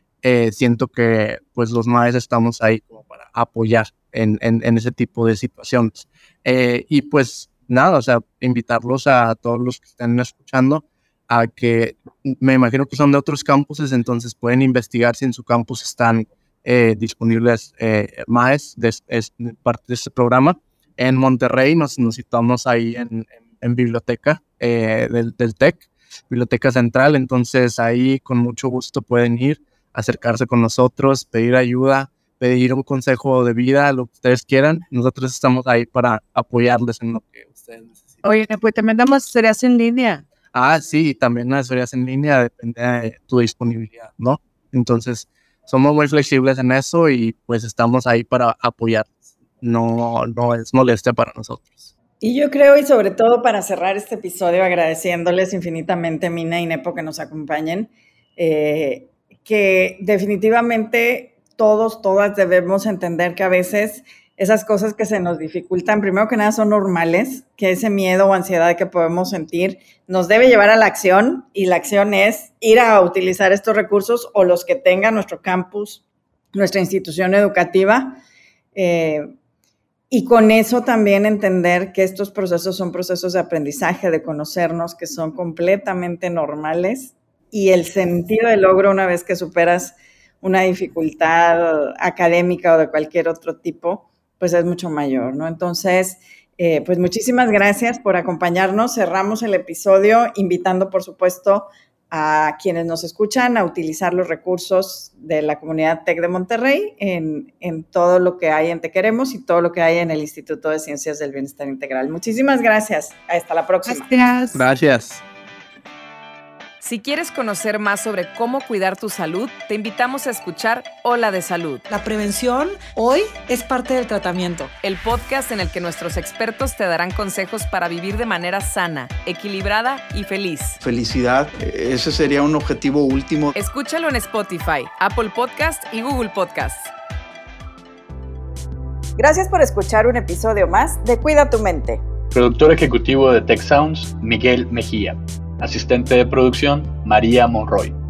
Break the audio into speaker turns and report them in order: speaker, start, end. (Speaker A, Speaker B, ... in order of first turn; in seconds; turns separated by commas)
Speaker A: 0.2-38.2, Speaker B: 38.2-40.2, Speaker A: 40.5-51.9, Speaker C: 52.2-76.0, Speaker C: 76.5-78.2, Speaker C: 78.7-79.3, Speaker C: 80.1-114.1, Speaker B: 113.8-114.6, Speaker A: 114.5-115.2, Speaker D: 116.8-121.8, Speaker E: 121.9-124.7, Speaker D: 124.8-130.8, Speaker F: 130.8-133.5, Speaker D: 133.6-136.9, Speaker C: 139.2-142.0, Speaker G: 142.3-147.9